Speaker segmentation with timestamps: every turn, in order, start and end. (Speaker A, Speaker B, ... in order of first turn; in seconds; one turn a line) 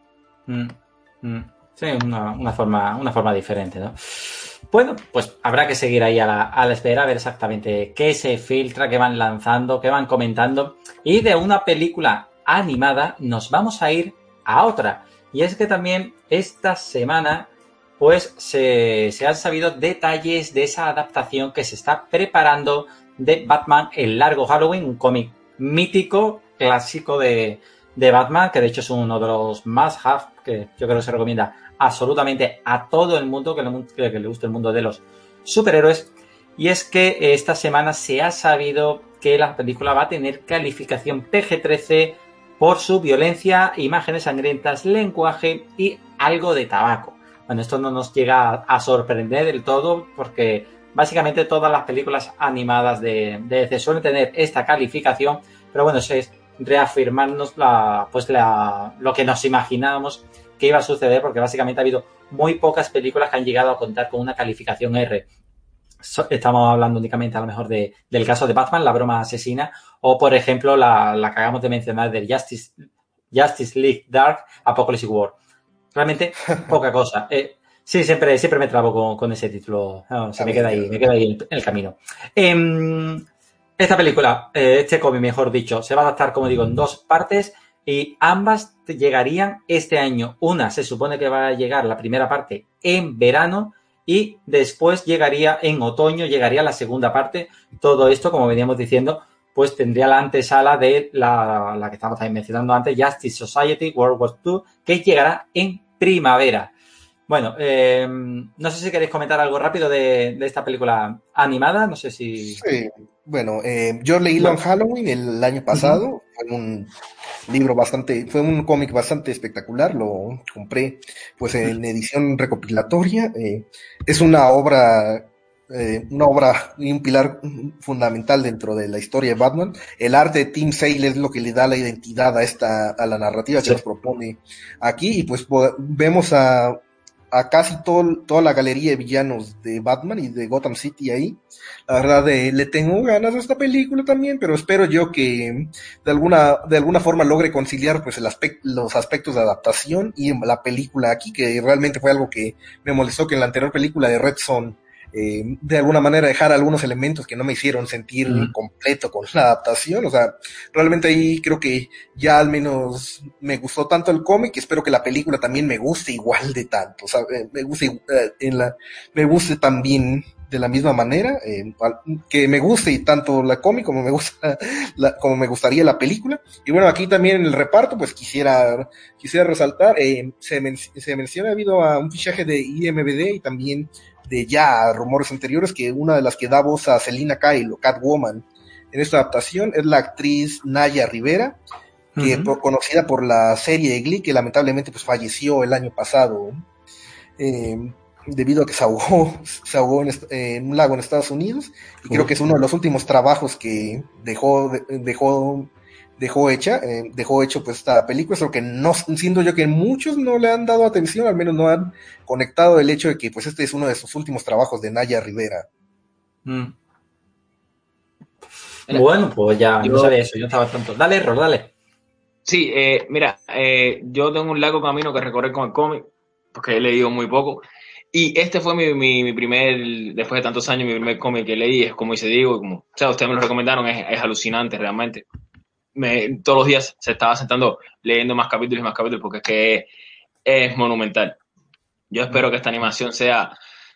Speaker A: 0.5-65.2
Speaker A: 66.0-75.3
Speaker A: 75.9-83.2
Speaker B: 80.4-81.1
Speaker A: 83.8-106.7
Speaker A: 107.3-112.6
Speaker B: 112.5-116.9
Speaker A: 115.7-116.0
Speaker B: 117.5-136.8
Speaker B: 137.3-191.6
Speaker A: 158.3-158.5
Speaker A: 192.2-192.5
Speaker B: 192.2-196.6
Speaker B: 197.4-215.7
Speaker A: 202.1-202.5
Speaker A: 216.4-216.7
Speaker A: 218.9-221.7
Speaker C: 219.8-220.1
Speaker C: 222.4-235.2
Speaker C: 235.9-239.9
Speaker C: 240.4-241.4
Speaker C: 242.1-243.5